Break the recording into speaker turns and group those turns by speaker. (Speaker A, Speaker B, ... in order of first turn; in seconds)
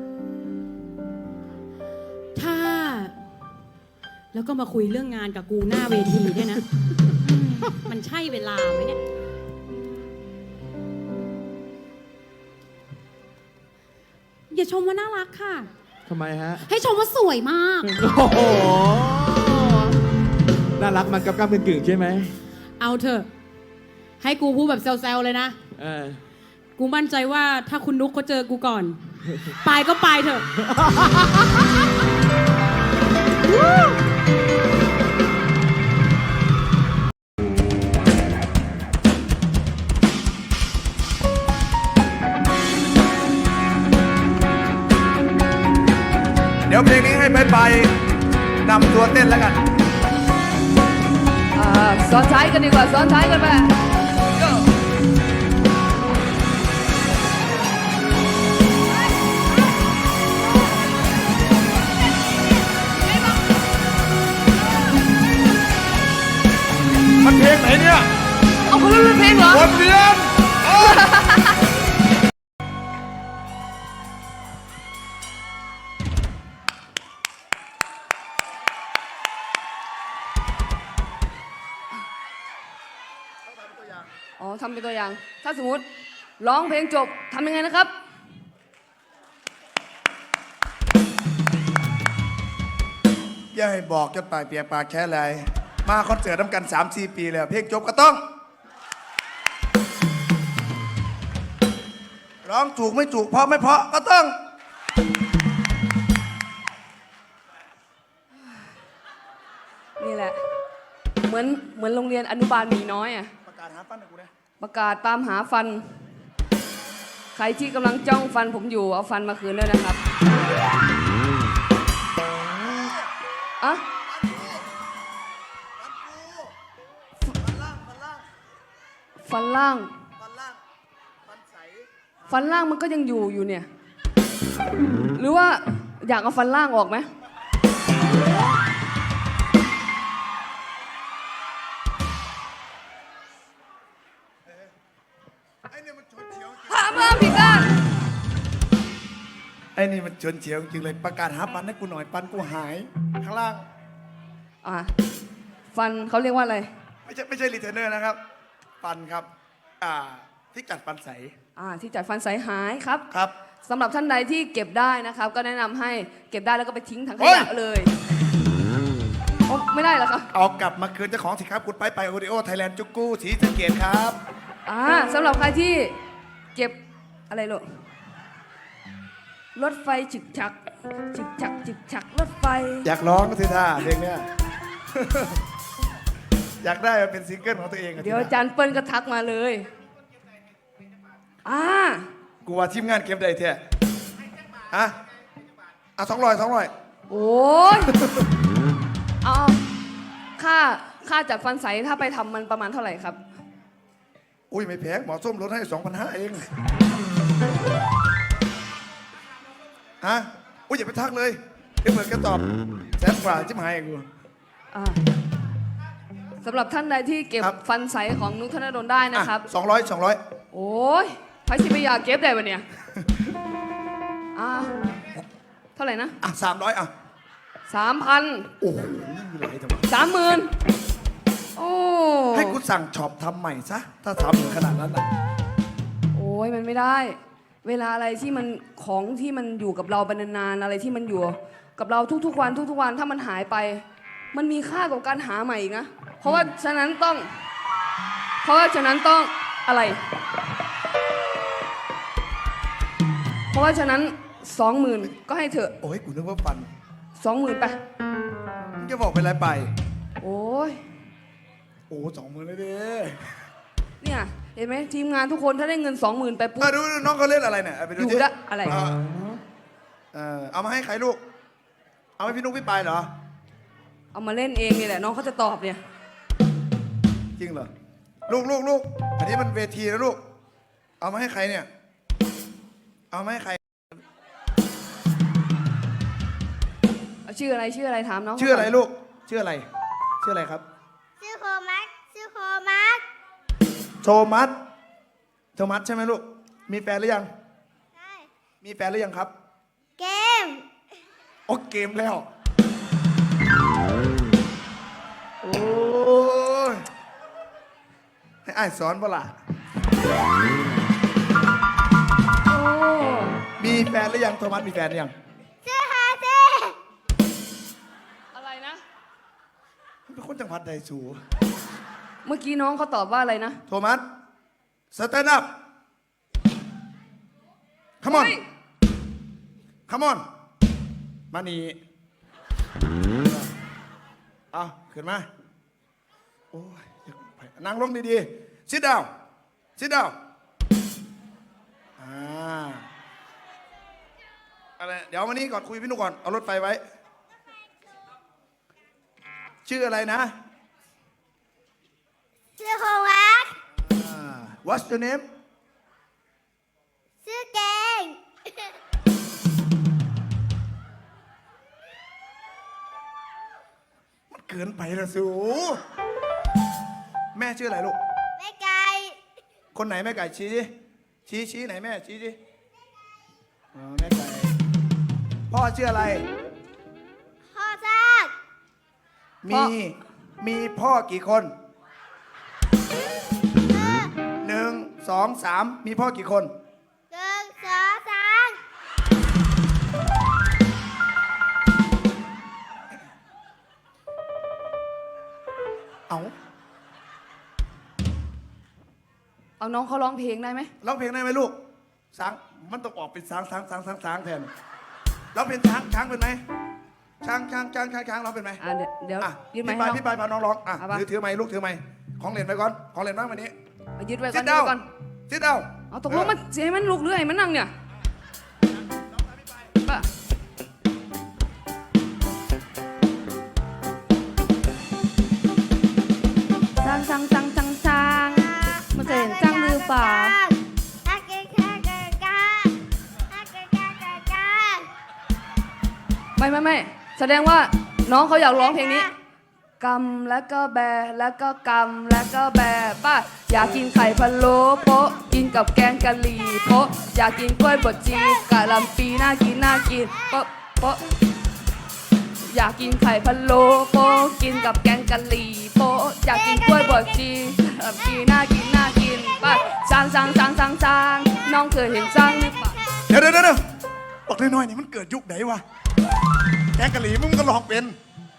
Speaker A: 2.3-3.1, 4.3-9.0, 14.5-15.7, 16.4-18.0, 22.8-23.3, 24.2-25.6, 26.8-30.5
Speaker B: 16.1-16.6, 17.9-19.9, 20.8-22.4, 25.8-26.2
Speaker C: 46.7-47.9, 48.6-49.6, 67.2-68.1, 69.5-71.2, 83.5-84.1, 93.5-98.2, 102.4-104.4, 113.5-114.3, 122.5-123.1, 124.1-124.7, 125.8-126.5, 127.2-128.2, 130.2-130.6, 131.2-131.9, 145.7-147.4, 149.7-153.7, 157.1-158.2, 158.8-159.3, 159.8-161.3, 167.2-167.5, 170.3-174.2, 182.8-184.3, 184.9-185.4, 186.6-188.3, 192.4-193.6, 194.7-195.0, 196.0-196.7, 197.7-198.2, 204.5-206.5, 210.0-214.1, 219.1-220.2, 223.0-223.3, 226.2-226.9, 228.6-229.9, 232.3-235.0, 246.2-246.5, 255.8-256.7, 258.8-259.7, 261.9-263.4, 266.6-269.0, 270.1-271.2, 272.2-273.1, 277.4-277.7, 278.3-280.2, 281.0-281.7, 283.1-283.6, 288.4-289.7, 290.2-290.6, 294.0-294.6, 295.6-297.3, 298.6-299.3, 301.5-302.3, 305.4-306.8, 308.4-309.4, 313.6-315.1, 320.1-321.2, 323.7-324.0, 324.9-325.5, 328.0-328.4, 329.9-330.2, 331.3-331.8, 333.1-333.5, 334.5-335.3, 336.5-339.1, 339.8-340.1, 342.0-342.9, 344.8-346.8, 349.6-350.3, 353.8-355.2, 364.3-365.8, 367.3-368.0, 369.7-370.7, 371.3-372.4, 373.7-374.6, 375.5-376.2, 379.4-381.5, 384.4-386.5, 400.8-401.6, 402.1-404.5, 405.3-406.4, 407.2-408.6, 409.2-413.5, 414.3-414.8, 415.3-416.3, 463.1-463.6, 464.3-465.6, 466.8-468.0
Speaker D: 51.5-53.8, 68.7-69.7, 70.7-71.6, 84.4-85.8, 86.4-87.9, 110.0-110.4, 111.2-113.3, 114.6-116.1, 117.3-120.0, 129.2-129.9, 132.3-133.7, 135.1-137.1, 146.7-147.8, 154.6-154.9, 155.7-156.7, 161.6-163.0, 163.6-167.9, 169.5-170.3, 174.7-176.0, 177.3-177.7, 179.5-182.9, 188.0-189.7, 191.4-192.1, 197.1-197.9, 199.2-199.6, 200.4-203.2, 214.7-215.0, 216.4-219.5, 220.5-222.6, 224.3-224.7, 225.8-226.2, 227.7-228.5, 229.9-230.5, 231.6-232.6, 236.1-247.3, 248.4-250.0, 253.5-255.8, 257.1-257.8, 260.2-260.8, 264.0-266.7, 268.0-268.8, 274.1-275.8, 287.2-288.7, 312.5-313.4, 318.3-318.8, 322.2-323.6, 328.1-328.4, 379.5-379.7, 399.6-400.7, 408.6-410.0, 410.8-411.1, 414.0-414.9, 415.9-417.7, 419.8-420.1, 426.8-430.4, 436.4-439.1, 439.8-451.0, 452.4-462.8
Speaker E: 291.2-293.0, 297.9-298.3, 300.0-300.6, 315.6-316.8, 352.6-353.6, 357.2-358.7, 368.4-369.2, 377.5-378.3, 383.6-384.1, 387.1-388.6, 428.6-434.9, 438.5-439.1, 456.3-457.1, 462.3-463.0